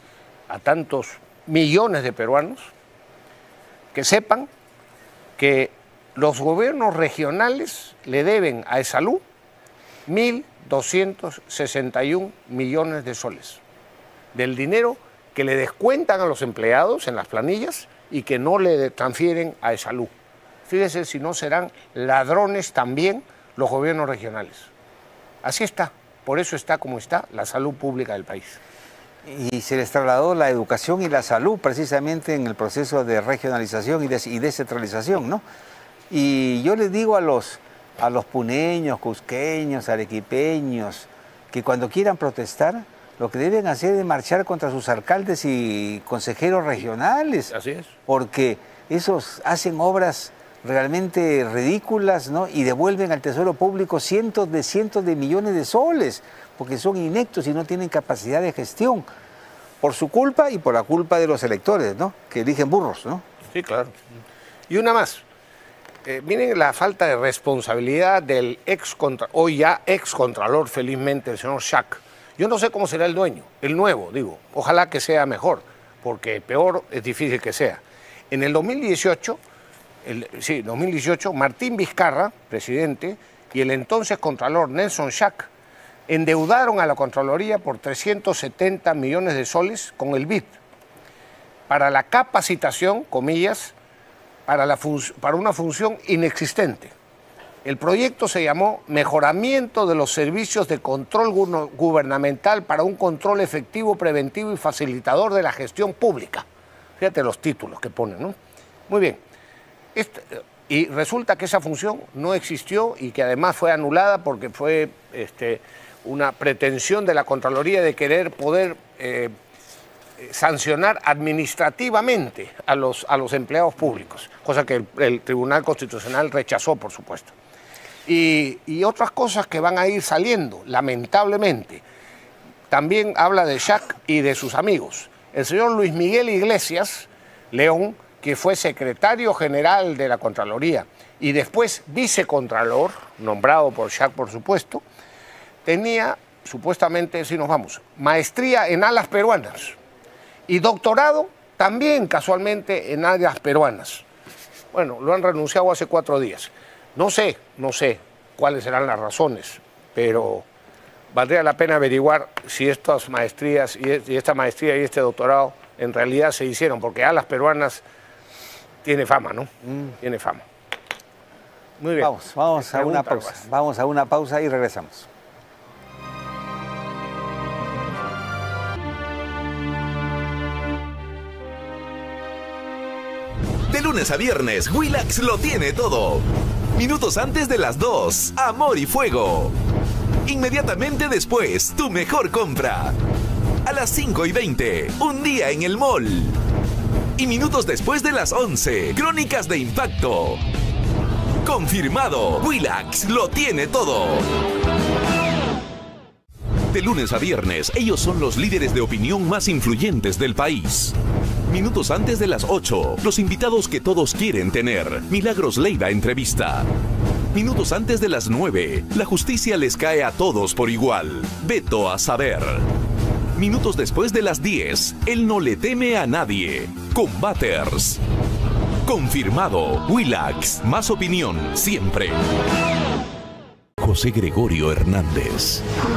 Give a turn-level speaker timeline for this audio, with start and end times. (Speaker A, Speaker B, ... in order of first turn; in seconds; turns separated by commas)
Speaker A: 0.5-2.7, Speaker A: 3.9-4.5, Speaker A: 5.4-9.2, Speaker A: 10.1-13.6, Speaker A: 14.3-20.1, Speaker A: 20.7-24.7, Speaker A: 25.4-28.6, Speaker B: 29.2-35.4, Speaker B: 36.1-47.5, Speaker A: 47.5-47.9, Speaker B: 48.1-59.1, Speaker B: 59.8-63.2, Speaker A: 63.5-64.0, Speaker A: 64.7-65.2, Speaker A: 66.0-79.4, Speaker A: 80.0-85.5, Speaker A: 86.1-90.6, Speaker A: 91.7-93.8, Speaker A: 94.5-96.9, Speaker A: 97.6-106.5, Speaker A: 107.0-108.4, Speaker A: 108.9-109.2, Speaker A: 110.0-119.3, Speaker A: 120.2-127.3, Speaker A: 128.1-131.8, Speaker A: 132.7-144.8, Speaker A: 145.7-149.8, Speaker A: 150.5-154.1, Speaker A: 154.7-160.4, Speaker A: 161.1-167.8, Speaker A: 168.8-170.4, Speaker B: 169.7-169.9, Speaker A: 171.8-173.4, Speaker B: 172.0-175.1, Speaker C: 183.7-189.6, Speaker C: 190.2-193.0, Speaker C: 193.7-196.4, Speaker C: 197.2-200.4, Speaker C: 201.4-204.3, Speaker C: 206.7-210.9, Speaker C: 211.5-216.7, Speaker C: 217.3-222.7, Speaker C: 223.4-228.0, Speaker C: 228.9-232.2, Speaker C: 233.8-235.7